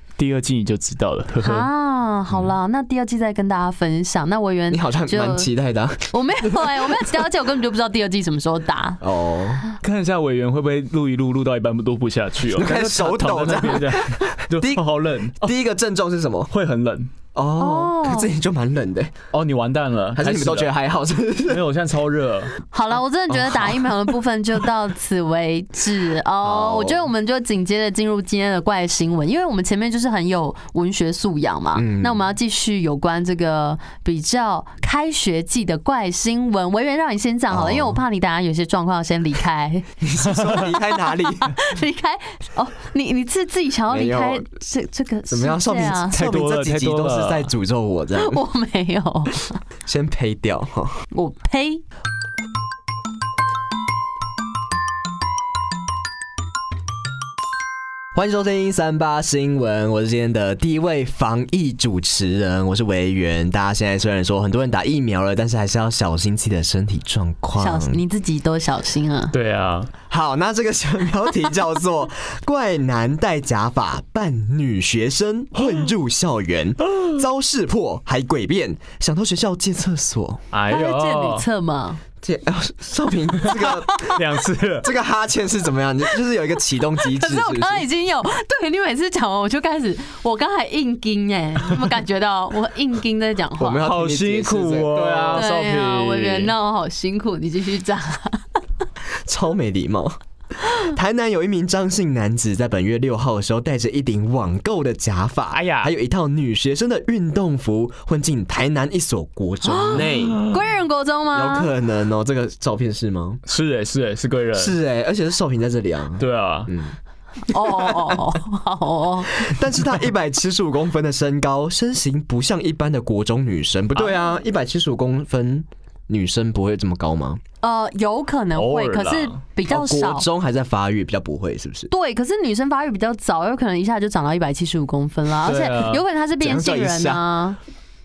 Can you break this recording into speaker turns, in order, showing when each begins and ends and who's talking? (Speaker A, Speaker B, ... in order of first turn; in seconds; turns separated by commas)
Speaker A: 0.2-1.7, Speaker B: 1.4-5.5, Speaker C: 4.7-7.1, Speaker B: 6.1-9.0, Speaker C: 9.0-9.6, Speaker A: 9.8-15.5, Speaker C: 12.5-14.8, Speaker C: 15.4-16.5, Speaker A: 16.5-17.1, Speaker C: 17.3-19.1, Speaker B: 17.6-18.3, Speaker A: 19.3-20.7, Speaker C: 20.1-21.6, Speaker A: 21.4-22.5, Speaker B: 22.7-46.2, Speaker C: 26.4-27.1, Speaker C: 31.7-32.2, Speaker C: 37.5-38.0, Speaker C: 40.0-41.5, Speaker C: 43.9-44.4, Speaker C: 45.3-48.4, Speaker A: 46.1-47.5, Speaker B: 48.2-49.6, Speaker C: 49.9-51.0, Speaker B: 51.1-51.8, Speaker C: 58.1-68.0, Speaker B: 67.5-69.3, Speaker A: 69.3-69.9, Speaker C: 70.1-80.4, Speaker A: 80.5-81.5, Speaker B: 80.7-82.0, Speaker C: 82.2-84.2, Speaker A: 83.4-84.9, Speaker C: 84.8-87.8, Speaker B: 87.0-93.8, Speaker C: 93.5-95.4, Speaker A: 93.8-96.5, Speaker B: 95.3-98.6, Speaker C: 99.2-110.5, Speaker A: 105.5-105.9, Speaker B: 109.6-111.7, Speaker A: 110.0-110.6, Speaker C: 111.3-113.4, Speaker A: 113.5-114.7, Speaker C: 114.5-117.0, Speaker A: 116.2-116.7, Speaker B: 117.5-119.5, Speaker C: 117.5-118.2, Speaker C: 119.4-127.4, Speaker B: 127.6-130.3, Speaker A: 128.5-129.4, Speaker C: 129.7-131.9, Speaker B: 131.9-137.6, Speaker A: 135.4-136.0, Speaker C: 136.4-137.2